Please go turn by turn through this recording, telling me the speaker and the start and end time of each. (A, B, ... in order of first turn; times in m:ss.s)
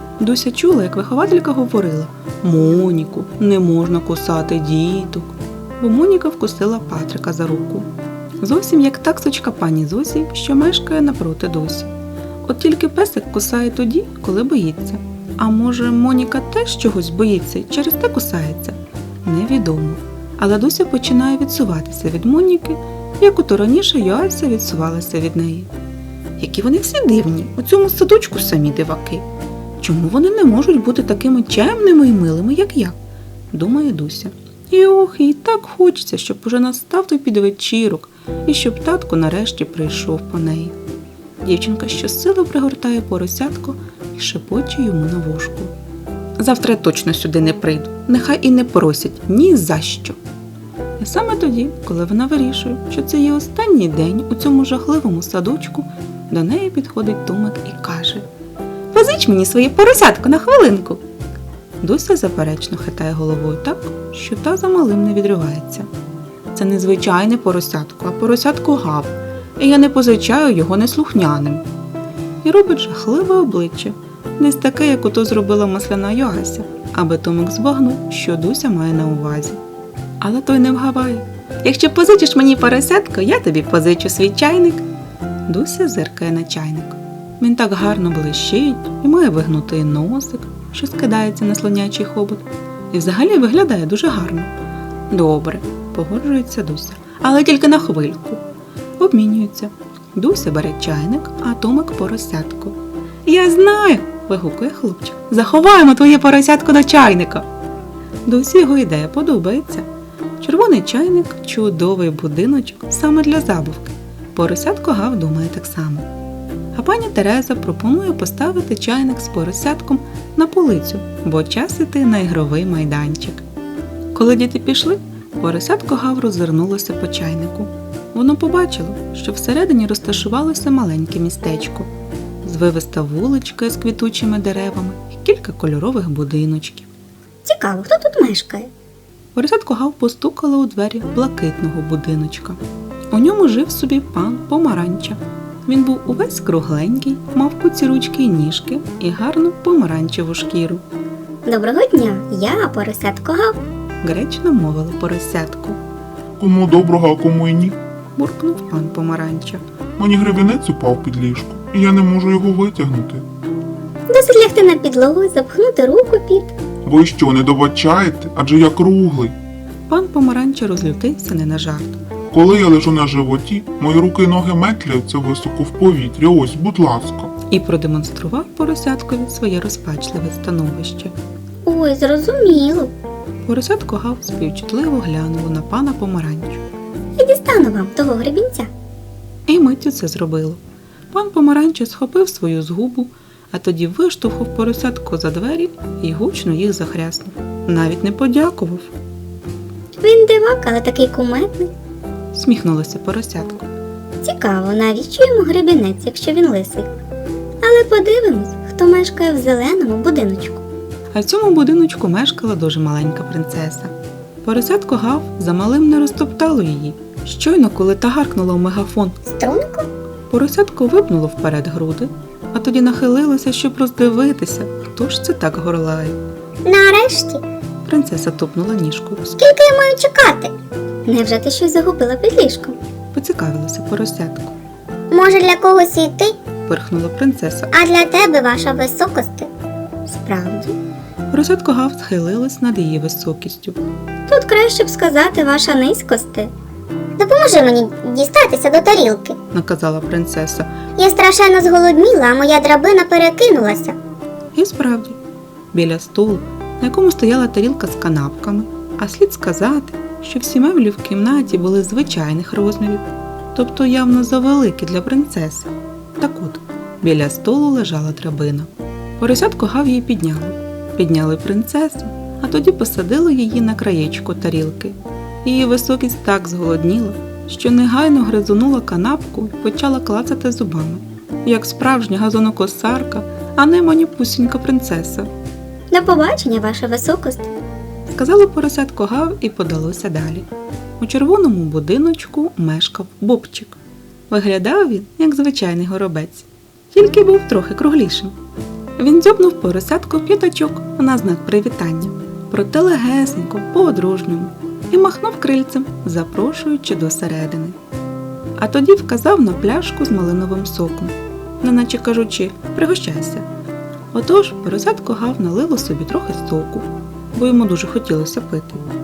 0:00.2-0:07.9 A
0:08.4-0:11.9 A
0:12.4-0:25.7 A
0:26.4-0:29.2 A
0:29.8-0:33.0 A
0:33.5-0:40.8 A
0:41.4-0:45.7 A
0:46.4-0:50.2 A
0:51.0-0:58.3 A
0:58.9-1:01.0 A
1:01.8-1:05.9 A
1:06.5-1:11.6 A
1:12.4-1:19.6 A
1:20.2-1:24.8 A
1:25.5-1:34.5 A
1:35.1-1:38.4 A
1:39.0-1:47.5 A
1:48.2-1:49.9 A
1:50.4-1:56.1 A
1:56.8-2:03.4 A
2:04.1-2:11.9 A
2:12.4-2:16.9 A
2:17.4-2:18.7 B
2:19.4-2:22.6 A
2:23.1-2:30.8 A
2:31.5-2:33.6 B
2:34.0-2:35.8 A
2:36.4-2:37.8 C
2:38.2-2:39.6 A
2:40.0-2:43.3 C
2:44.1-2:46.5 B
2:46.9-2:49.4 C
2:49.9-2:52.0 A
2:52.3-2:57.3 C
2:57.5-3:01.1 A
3:01.6-3:02.9 B
3:03.4-3:06.6 A
3:07.2-3:08.7 B
3:09.5-3:10.6 A
3:11.1-3:18.9 A
3:20.0-3:21.7 B
3:22.3-3:23.7 A
3:24.2-3:26.9 B
3:27.6-3:30.6 B
3:31.1-3:39.2 A
3:39.4-3:39.9 B
3:40.3-3:46.2 A
3:46.6-3:47.4 B
3:47.8-3:49.4 A
3:49.4-3:50.5 B
3:51.0-3:52.8 B
3:53.1-3:54.5 A
3:55.1-3:56.4 B
3:56.7-3:57.7 A
3:57.7-3:59.5 B
4:00.0-4:00.8 B
4:01.3-4:03.8 A
4:04.3-4:06.5 B
4:07.2-4:09.4 B
4:09.5-4:10.7 A
4:11.0-4:14.0 B
4:14.5-4:15.2 A
4:15.7-4:45.3 A
4:45.9-4:47.6 B
4:48.1-4:50.5 A
4:51.0-4:53.8 A
4:54.3-4:58.4 A
4:59.0-5:07.8 A
5:08.6-5:13.5 A
5:14.1-5:18.8 A